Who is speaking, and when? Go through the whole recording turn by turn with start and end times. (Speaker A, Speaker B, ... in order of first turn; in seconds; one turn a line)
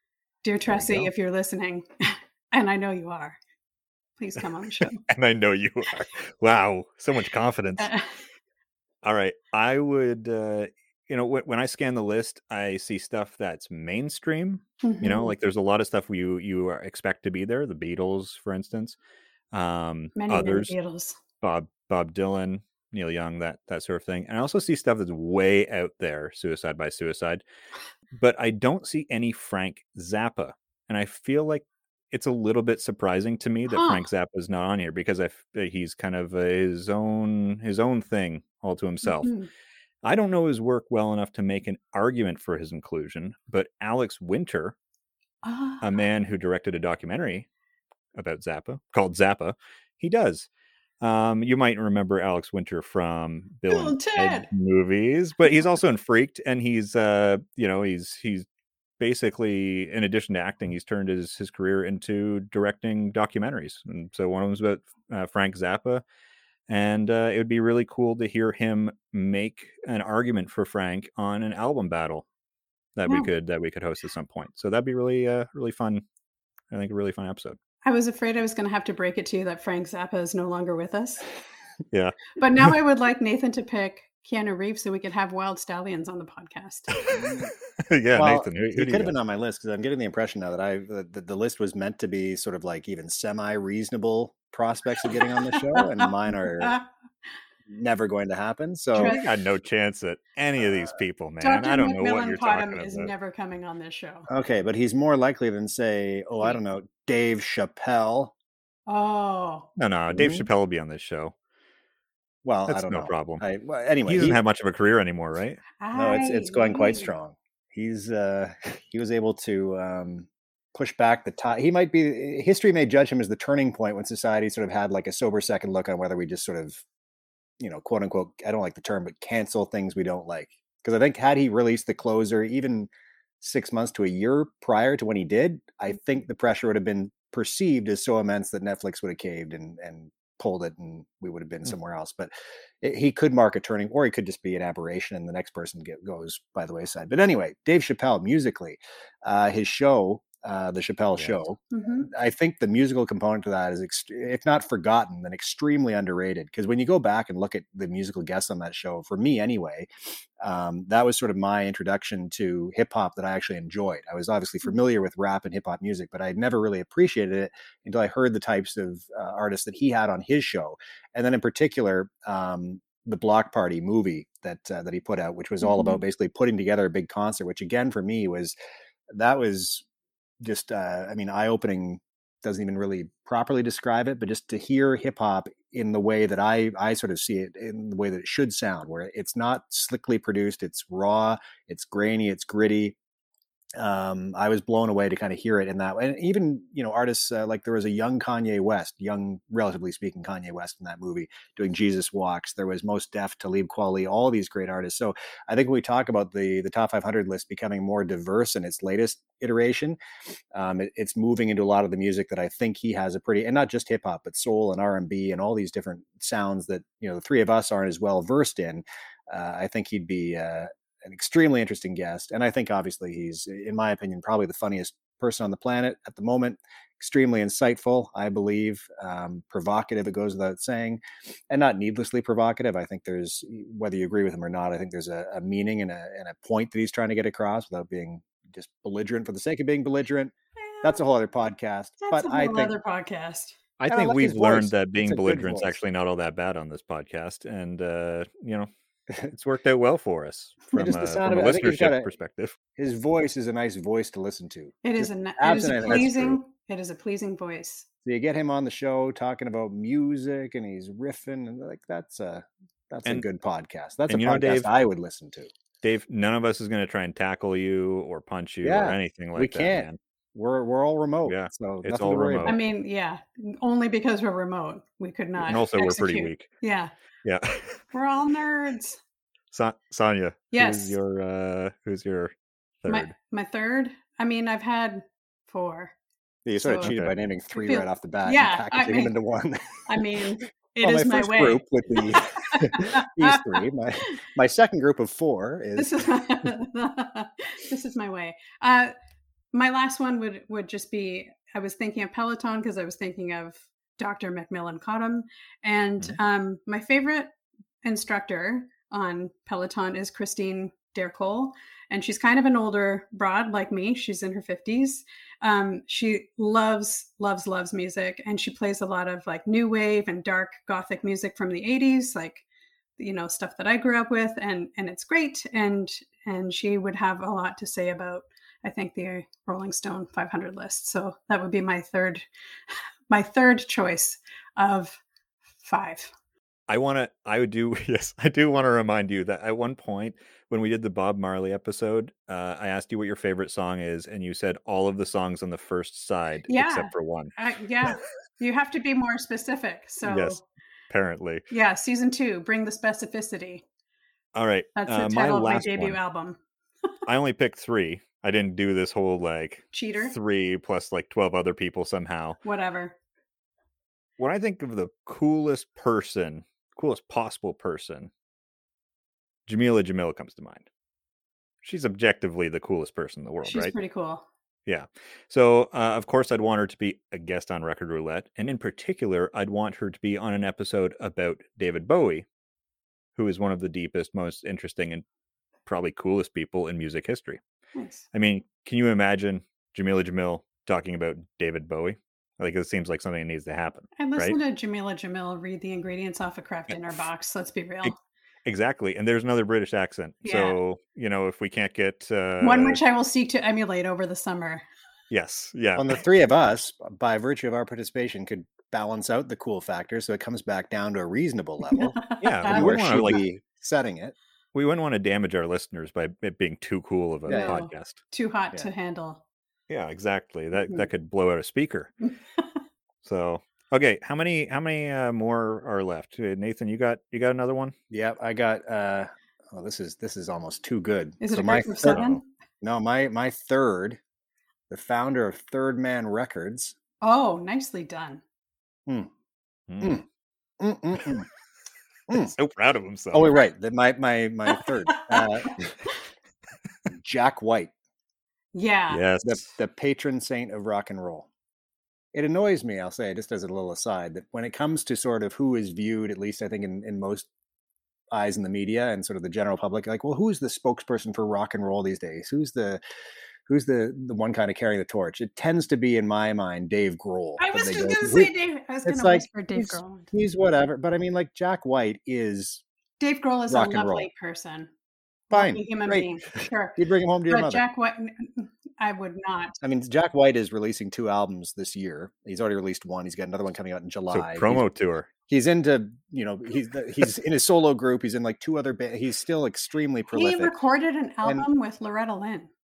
Speaker A: 0.4-3.4
Speaker B: 0.7-1.1
Speaker A: 4.2-5.0
Speaker B: 4.8-7.9
Speaker A: 7.8-8.2
Speaker B: 9.0-19.0
Speaker A: 14.8-15.3
Speaker B: 19.5-20.7
Speaker A: 20.1-21.2
Speaker B: 21.4-27.4
Speaker B: 28.1-39.3
Speaker A: 33.7-34.1
Speaker A: 39.0-39.5
Speaker B: 40.0-44.7
Speaker A: 45.4-46.0
Speaker B: 45.8-47.5
Speaker B: 48.1-50.5
Speaker B: 51.0-58.5
Speaker A: 53.7-54.5
Speaker B: 59.0-66.0
Speaker B: 66.7-72.2
Speaker B: 73.0-76.0
Speaker B: 76.7-77.6
Speaker A: 77.8-81.2
Speaker B: 81.9-82.7
Speaker A: 82.3-87.0
Speaker B: 87.0-89.2
Speaker C: 87.1-87.5
Speaker C: 88.1-96.8
Speaker A: 95.7-96.9
Speaker C: 97.7-99.2
Speaker A: 98.9-99.2
Speaker B: 99.0-103.1
Speaker C: 100.6-100.9
Speaker A: 101.4-104.3
Speaker C: 104.3-108.3
Speaker A: 108.9-109.7
Speaker B: 109.8-111.3
Speaker C: 110.1-110.5
Speaker C: 112.4-114.4
Speaker B: 112.7-113.4
Speaker B: 114.0-115.6
Speaker A: 115.8-117.1
Speaker C: 115.9-126.8
Speaker C: 127.6-159.9
Speaker B: 151.2-151.5
Speaker A: 151.7-152.1
Speaker C: 160.4-178.6
Speaker A: 175.6-176.0
Speaker C: 179.1-179.8
Speaker C: 180.4-193.0
Speaker C: 193.8-210.0
Speaker C: 210.5-242.7
Speaker A: 240.6-241.0
Speaker A: 242.0-243.6
Speaker B: 243.8-248.7
Speaker C: 243.9-245.8
Speaker B: 249.2-252.5
Speaker C: 250.7-252.1
Speaker C: 252.8-256.4
Speaker A: 254.8-257.9
Speaker C: 258.0-265.5
Speaker B: 264.1-264.7
Speaker B: 265.8-270.0
Speaker C: 268.6-272.6
Speaker B: 271.2-272.6
Speaker A: 272.4-276.9
Speaker C: 275.3-275.6
Speaker B: 275.5-276.5
Speaker B: 277.2-277.8
Speaker A: 277.9-279.0
Speaker B: 279.5-283.1
Speaker A: 280.5-281.0
Speaker A: 282.9-285.9
Speaker C: 286.4-289.8
Speaker A: 286.6-286.9
Speaker B: 286.8-287.2
Speaker A: 287.5-289.1
Speaker A: 289.9-293.6
Speaker C: 290.8-296.1
Speaker A: 295.8-298.9
Speaker A: 299.5-322.4
Speaker A: 323.0-335.0
Speaker A: 335.6-336.1
Speaker B: 336.7-347.3
Speaker A: 346.5-350.4
Speaker B: 350.0-350.4
Speaker B: 350.9-351.4
Speaker A: 351.5-353.6
Speaker B: 354.3-356.0
Speaker A: 354.8-356.4
Speaker B: 357.1-362.4
Speaker A: 359.7-360.1
Speaker A: 362.4-363.0
Speaker B: 364.2-368.1
Speaker B: 369.5-370.7
Speaker B: 371.6-373.7
Speaker A: 373.4-374.2
Speaker B: 374.6-382.2
Speaker B: 383.2-385.0
Speaker B: 385.6-387.4
Speaker A: 387.7-388.1
Speaker B: 388.1-394.4
Speaker A: 394.0-397.9
Speaker B: 396.7-397.1
Speaker B: 398.4-402.8
Speaker A: 400.2-400.6
Speaker A: 402.4-404.6
Speaker B: 405.1-406.0
Speaker C: 405.8-414.1
Speaker A: 411.7-413.2
Speaker B: 412.2-413.3
Speaker B: 414.5-418.0
Speaker C: 417.3-417.6
Speaker A: 417.3-419.2
Speaker B: 419.7-421.9
Speaker A: 422.0-422.6
Speaker B: 423.0-427.7
Speaker C: 427.9-432.1
Speaker A: 431.2-432.2
Speaker B: 431.9-432.2
Speaker C: 432.6-434.0
Speaker C: 434.7-436.7
Speaker A: 437.0-438.2
Speaker B: 439.7-440.0
Speaker C: 440.6-441.3
Speaker B: 442.1-443.3
Speaker C: 443.1-445.6
Speaker A: 444.9-445.9
Speaker C: 446.9-447.7
Speaker A: 448.5-449.0
Speaker B: 448.9-449.4
Speaker C: 449.2-451.3
Speaker C: 452.1-457.3
Speaker C: 458.1-462.8
Speaker C: 463.5-468.3
Speaker A: 467.4-470.1
Speaker C: 468.8-472.6
Speaker A: 473.0-474.7
Speaker C: 473.5-474.1
Speaker A: 475.3-479.6
Speaker C: 475.3-477.6
Speaker C: 479.6-484.6
Speaker B: 484.1-485.1
Speaker C: 485.3-490.6
Speaker A: 490.1-492.5